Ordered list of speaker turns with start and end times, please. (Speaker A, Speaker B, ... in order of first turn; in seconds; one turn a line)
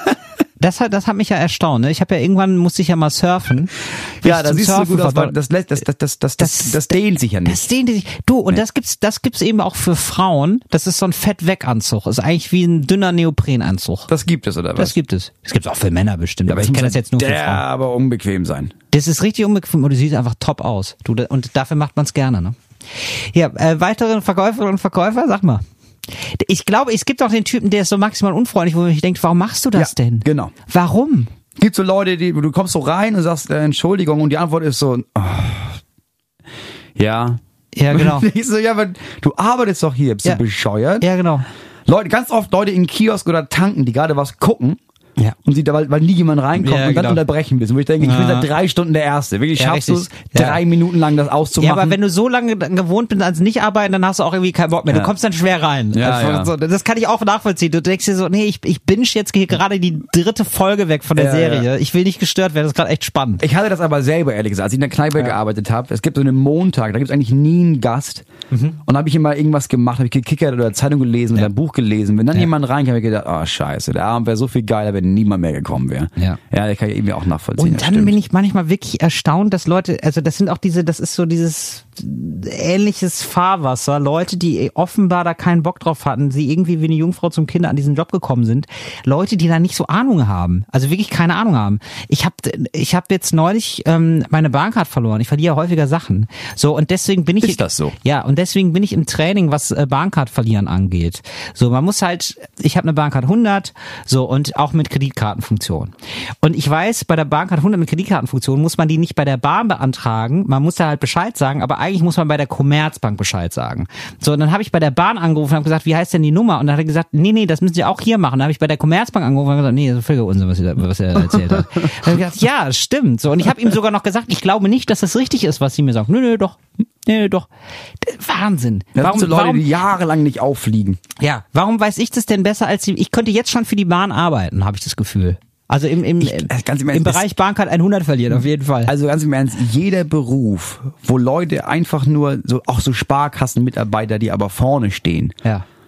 Speaker A: 0.6-5.3
Speaker B: 4.2-7.6
Speaker A: 6.4-14.1
Speaker B: 14.1-14.9
Speaker A: 14.8-17.6
Speaker B: 16.5-18.7
Speaker A: 18.9-31.3
Speaker B: 29.8-30.5
Speaker B: 31.6-35.8
Speaker B: 37.0-41.1
Speaker A: 37.7-38.3
Speaker A: 41.0-41.5
Speaker B: 41.9-44.8
Speaker B: 45.4-52.0
Speaker A: 46.6-47.2
Speaker A: 48.0-48.5
Speaker A: 49.5-50.6
Speaker A: 51.6-63.4
Speaker B: 54.9-55.1
Speaker B: 55.9-56.5
Speaker B: 61.1-61.7
Speaker B: 63.4-68.2
Speaker A: 68.5-68.8
Speaker B: 68.8-78.2
Speaker A: 77.6-127.5
Speaker B: 97.4-97.9
Speaker B: 121.2-122.2
Speaker A: 128.0-129.7
Speaker B: 128.9-131.0
Speaker A: 131.2-138.9
Speaker B: 136.2-137.2
Speaker B: 138.9-145.4